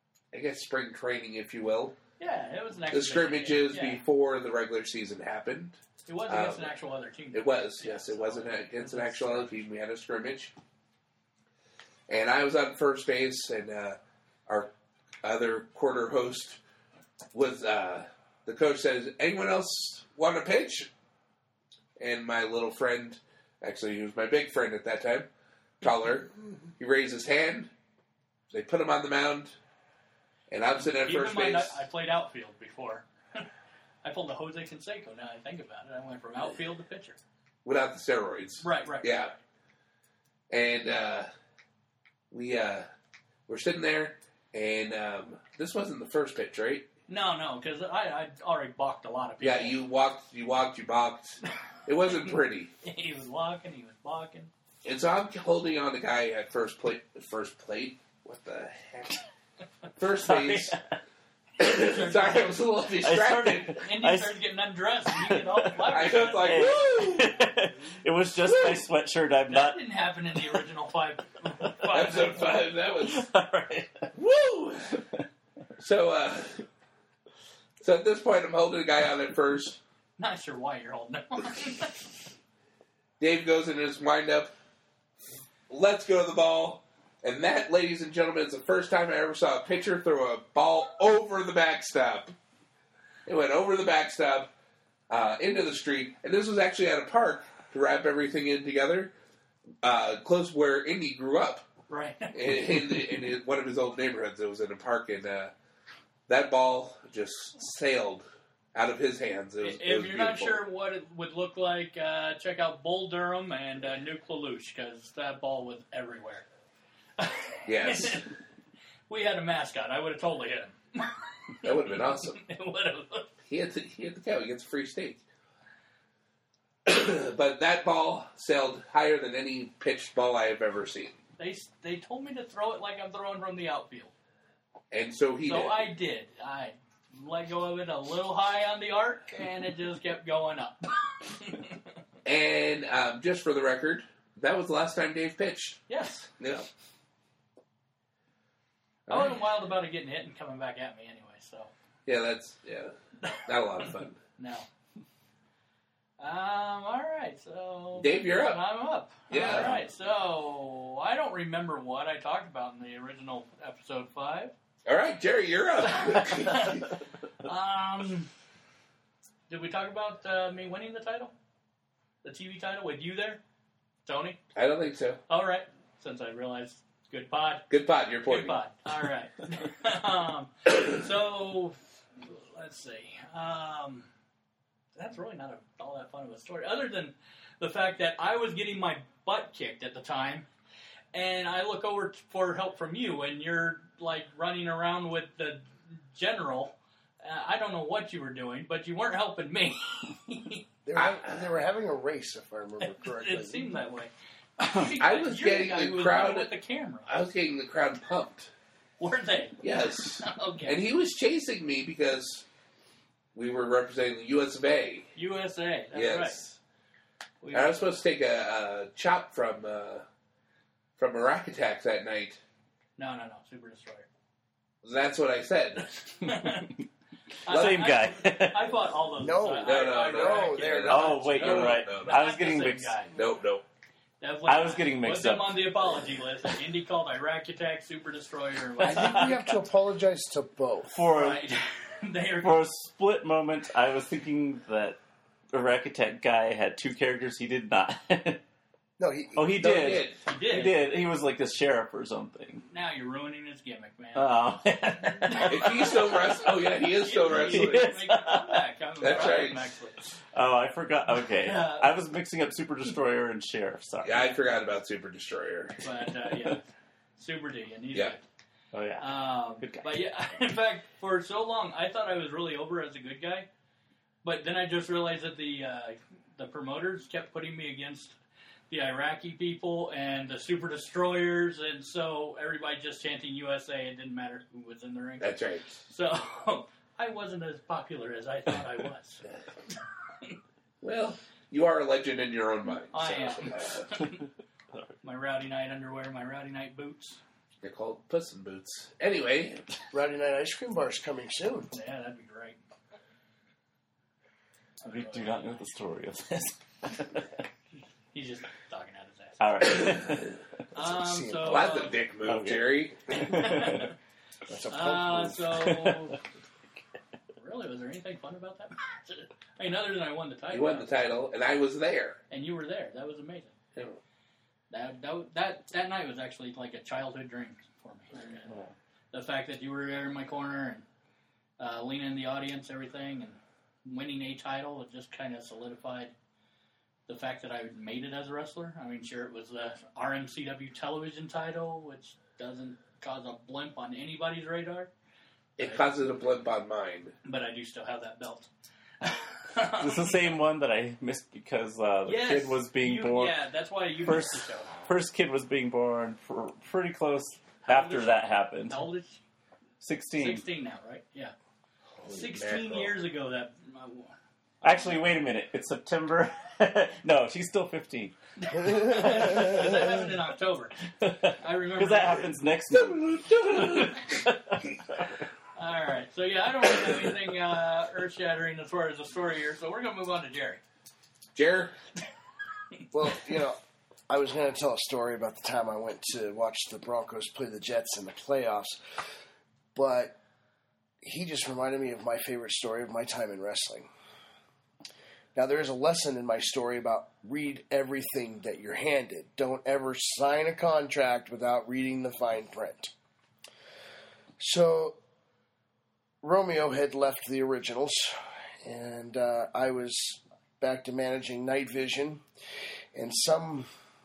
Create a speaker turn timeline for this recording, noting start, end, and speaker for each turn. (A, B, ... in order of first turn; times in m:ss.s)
0:00.3-0:02.0 A
0:02.2-0:04.0 B
0:02.9-0:06.7 A
0:06.0-0:09.6 B
0:07.3-0:10.5 A
0:12.1-0:14.7 A
0:15.2-0:16.6 A
0:17.3-0:20.9 A
0:22.0-0:25.3 A
0:25.8-0:27.7 A
0:28.5-0:29.6 A
0:30.5-0:31.8 A
0:30.8-0:33.5 B
0:34.0-0:37.2 B
0:37.6-0:39.3 A
0:38.6-0:39.2 B
0:40.5-0:41.3 A
0:42.3-0:42.9 A
0:43.5-0:46.9 A
0:47.1-0:49.8 B
0:49.4-0:52.7 A
0:52.8-0:54.5 B
0:54.8-0:59.2 A
1:00.0-1:00.8 A
1:00.3-1:00.7 B
1:01.6-1:03.8 A
1:01.6-1:02.7 B
1:03.0-1:04.4 C
1:03.2-1:06.7 B
1:05.1-1:09.8 C
1:05.8-1:07.4 A
1:08.4-1:08.8 A
1:09.5-1:12.6 B
1:11.9-1:13.2 A
1:13.0-1:14.1 C
1:14.1-1:15.0 A
1:15.8-1:16.6 A
1:17.8-1:19.8 A
1:20.2-1:22.1 B
1:23.2-1:24.5 A
1:25.7-1:32.3 A
1:33.2-1:34.5 A
1:35.1-1:39.1 A
1:39.8-1:41.6 A
1:41.9-1:43.0 B
1:42.3-1:45.5 A
1:46.3-1:50.6 A
1:49.6-1:56.4 B
1:57.2-1:58.3 B
1:57.6-1:58.3 A
1:59.1-2:03.3 B
2:01.6-2:02.4 A
2:03.5-2:05.2 A
2:06.8-2:11.2 A
2:11.4-2:14.1 B
2:14.9-2:15.9 A
2:15.4-2:21.8 B
2:22.2-2:25.8 A
2:25.9-2:26.3 B
2:26.4-2:26.7 A
2:29.1-2:29.4 A
2:29.1-2:31.7 B
2:32.0-2:34.2 A
2:34.4-2:34.7 B
2:36.2-2:44.5 B
2:38.0-2:38.6 A
2:39.3-2:39.8 A
2:44.8-2:46.8 A
2:45.8-2:46.9 B
2:47.4-2:48.3 B
2:49.5-2:51.3 B
2:52.2-2:53.4 B
2:54.0-2:54.4 B
2:54.5-2:55.2 A
2:55.3-2:57.7 B
2:57.7-2:58.6 A
2:58.2-3:04.1 B
3:05.0-3:10.5 B
3:11.1-3:20.6 B
3:20.8-3:23.7 D
3:20.9-3:21.5 A
3:22.8-3:27.1 B
3:25.0-3:26.5 A
3:27.1-3:28.5 A
3:29.0-3:29.6 B
3:29.6-3:32.4 A
3:30.2-3:30.8 B
3:33.3-3:35.1 A
3:35.1-3:36.6 B
3:35.9-3:36.5 A
3:37.4-3:37.9 B
3:37.5-3:40.0 A
3:41.0-3:42.4 A
3:43.0-3:44.0 B
3:44.8-3:46.2 A
3:46.2-3:46.7 B
3:47.4-3:53.1 B
3:47.5-3:48.7 C
3:47.5-3:47.8 A
3:49.2-3:51.1 D
3:49.6-3:52.3 A
3:50.9-3:53.0 C
3:53.1-3:53.6 A
3:54.2-3:59.5 B
3:54.5-3:56.0 C
3:58.8-3:59.6 C
3:58.8-4:00.9 D
4:00.9-4:01.4 C
4:01.1-4:02.6 B
4:02.4-4:05.0 C
4:05.5-4:08.4 C
4:09.0-4:09.6 D
4:09.3-4:12.6 C
4:09.6-4:10.2 A
4:10.2-4:10.8 B
4:12.7-4:14.4 B
4:14.1-4:16.1 C
4:15.1-4:20.0 B
4:15.5-4:17.9 A
4:17.3-4:18.6 C
4:19.0-4:19.6 A
4:20.3-4:24.4 C
4:21.4-4:21.9 B
4:24.0-4:25.8 A
4:25.8-4:26.6 B
4:27.2-4:28.2 B
4:28.7-4:30.0 C
4:29.0-4:33.5 B
4:34.2-4:38.2 B
4:38.7-4:49.2 B
4:45.2-4:45.7 A
4:50.8-4:53.9 A
4:52.9-4:54.2 B
4:55.0-4:57.2 B
4:57.6-4:59.6 A
4:59.9-5:01.7 D
5:01.7-5:02.6 B
5:04.8-5:05.6 B
5:04.8-5:07.4 C
5:08.1-5:09.7 B
5:09.4-5:10.4 C
5:10.7-5:12.0 B
5:10.7-5:11.7 D
5:11.4-5:13.2 A
5:12.2-5:13.9 C
5:13.1-5:13.9 B
5:14.5-5:15.6 D
5:14.7-5:16.2 B
5:15.6-5:16.1 C
5:17.4-5:20.9 B
5:20.5-5:22.2 A
5:22.3-5:23.6 B
5:24.7-5:30.8 B
5:31.6-5:36.1 B
5:37.1-5:44.9 B
5:45.6-5:47.1 A
5:45.6-5:45.8 B
5:47.2-5:48.5 B
5:49.0-5:50.3 B
5:49.8-5:53.3 C
5:52.0-5:54.8 B
5:54.0-5:58.8 C
5:57.6-5:59.2 B
5:59.8-6:00.4 C
6:00.2-6:01.3 B
6:02.0-6:02.9 A
6:02.1-6:04.2 B
6:04.6-6:09.9 C
6:08.4-6:10.8 B
6:11.0-6:15.2 C
6:11.4-6:12.3 B
6:12.7-6:14.0 A
6:15.6-6:20.6 B
6:21.3-6:21.7 A
6:22.9-6:23.6 D
6:24.1-6:28.8 D
6:29.7-6:30.2 D
6:31.0-6:33.9 D
6:35.3-6:42.9 D
6:44.4-6:45.0 D
6:46.2-6:52.2 D
6:52.9-6:53.7 D